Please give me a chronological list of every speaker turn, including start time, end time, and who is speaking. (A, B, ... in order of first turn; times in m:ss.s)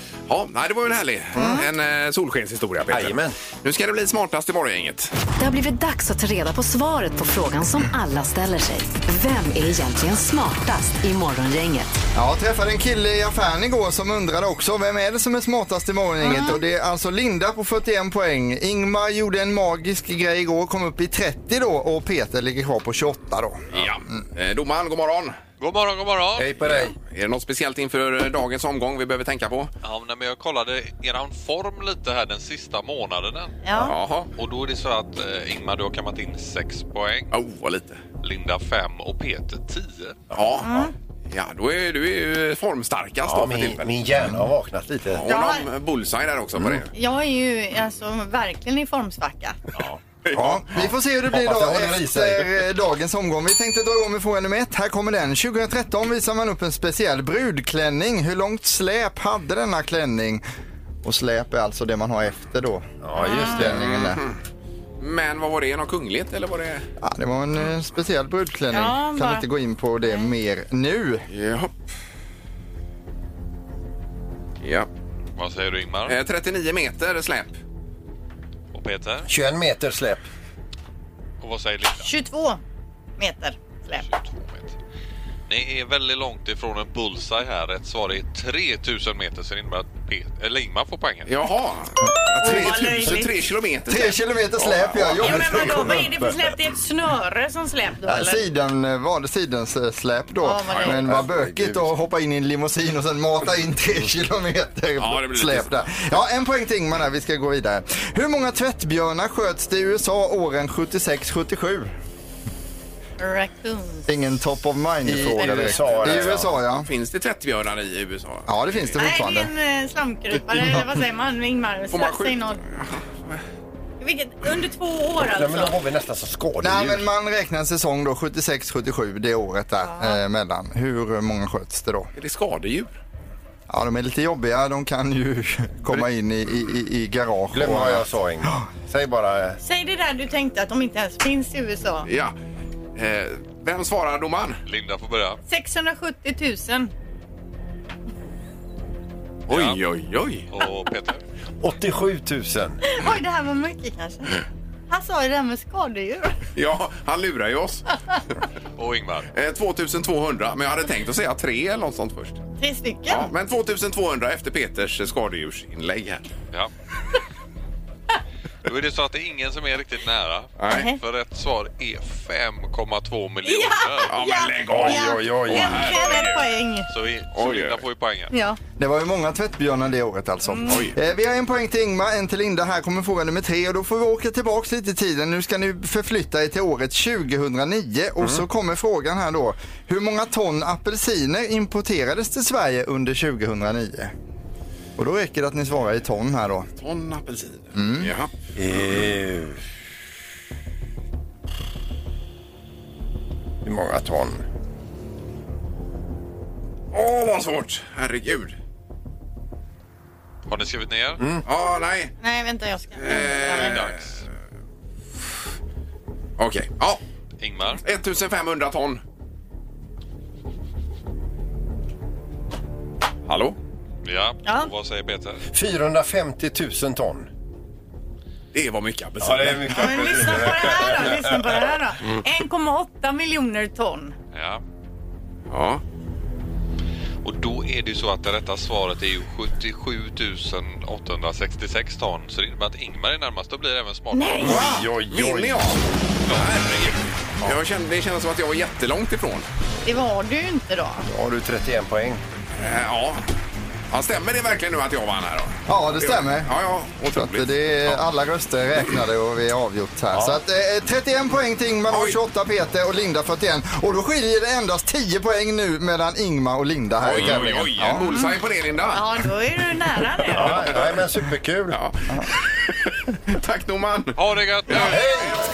0:00.3-0:05.1 A
0:01.4-0:01.7 B
0:02.9-0:03.4 C
0:05.4-0:12.0 D
0:12.2-0:23.8 E
0:16.2-0:16.6 B
0:23.7-0:25.4 A
0:25.6-0:26.5 F
0:26.4-0:27.0 C
0:26.7-0:29.7 A
0:29.8-0:33.6 F
0:33.6-0:33.9 B
0:33.8-0:34.3 A
0:34.4-0:37.3 F
0:37.3-0:38.0 A
0:38.2-0:40.3 F
0:40.3-0:44.2 A
0:40.6-0:40.9 B
0:43.2-0:45.3 C
0:45.1-0:46.9 A
0:45.3-0:45.6 B
0:46.9-0:49.6 B
0:49.8-0:50.0 C
0:50.2-0:50.7 A
0:50.4-1:00.4 E
0:50.7-0:52.5 C
1:01.0-1:02.9 E
1:03.0-1:03.9 C
1:03.2-1:03.6 B
1:03.5-1:04.2 E
1:03.7-1:04.4 A
1:05.0-1:06.9 A
1:07.0-1:11.2 E
1:08.7-1:09.4 B
1:10.0-1:10.3 B
1:11.3-1:11.7 A
1:14.6-1:14.9 A
1:15.4-1:16.2 F
1:16.1-1:17.6 A
1:18.7-1:19.3 F
1:19.3-1:20.3 C
1:21.4-1:22.1 F
1:22.0-1:22.6 B
1:23.2-1:24.0 B
1:24.0-1:24.8 F
1:25.5-1:31.4 F
1:31.3-1:35.4 A
1:32.4-1:33.2 B
1:32.4-1:33.3 E
1:33.9-1:36.0 E
1:35.1-1:36.4 C
1:35.2-1:38.4 B
1:38.1-1:51.9 E
1:40.4-1:41.0 B
1:40.9-1:42.0 C
1:45.0-1:45.8 A
1:53.2-1:54.1 B
1:54.1-1:56.9 E
1:55.0-1:56.6 C
1:55.4-1:55.9 B
1:56.0-1:59.0 A
1:58.5-1:59.5 E
1:59.0-2:02.6 B
2:01.9-2:03.4 A
2:04.0-2:05.8 B
2:05.2-2:07.1 C
2:06.6-2:12.1 E
2:09.8-2:10.2 B
2:12.2-2:12.9 A
2:13.7-2:18.6 E
2:17.5-2:19.6 C
2:19.6-2:22.1 B
2:22.1-2:22.3 A
2:23.0-2:24.6 A
2:24.7-2:25.4 F
2:25.5-2:26.9 B
2:29.5-2:30.5 A
2:29.5-2:29.8 F
2:30.5-2:31.2 F
2:31.6-2:32.8 C
2:32.8-2:36.4 B
2:36.6-2:37.8 A
2:38.8-2:39.3 F
2:39.3-2:42.4 A
2:42.6-2:43.3 B
2:43.1-2:46.2 A
2:48.6-2:54.2 F
2:50.6-2:50.9 A
2:50.7-2:51.0 B
2:53.4-2:56.9 B
2:54.1-2:56.5 A
2:54.7-2:56.0 C
2:56.9-2:58.3 F
2:57.3-2:57.8 A
2:58.3-2:58.6 B
2:58.8-3:14.1 E
3:00.4-3:00.8 B
3:00.7-3:01.0 A
3:15.0-3:16.7 E
3:16.8-3:18.3 A
3:17.8-3:18.1 E
3:18.6-3:19.6 C
3:23.6-3:24.4 C
3:26.9-3:28.6 A
3:30.5-3:31.2 F
3:31.4-3:32.1 A
3:32.2-3:33.8 B
3:33.0-3:34.2 A
3:33.5-3:34.0 F
3:36.4-3:37.0 A
3:37.4-3:37.8 F
3:37.8-3:39.0 A
3:43.3-3:43.6 A
3:44.0-3:45.4 F
3:44.4-3:44.7 B
3:45.5-3:47.3 C
3:48.5-3:50.5 A
3:49.2-3:51.6 C
3:49.8-3:54.2 B
3:54.3-3:54.6 F
3:55.5-3:55.8 A
3:57.2-4:04.7 F
4:04.1-4:04.6 B
4:04.4-4:05.8 C
4:04.4-4:09.5 A
4:09.8-4:11.1 B
4:11.1-4:12.2 C
4:12.6-4:13.3 A
4:13.9-4:18.0 A
4:15.7-4:16.5 E
4:17.1-4:28.0 E
4:20.1-4:20.4 C
4:21.9-4:22.2 A
4:27.0-4:27.7 C
4:27.0-4:29.0 A
4:28.0-4:28.3 B
4:28.9-4:30.6 B
4:30.3-4:31.8 C
4:30.4-4:31.0 A
4:31.7-4:35.0 A
4:34.2-4:35.0 F
4:34.7-4:35.4 C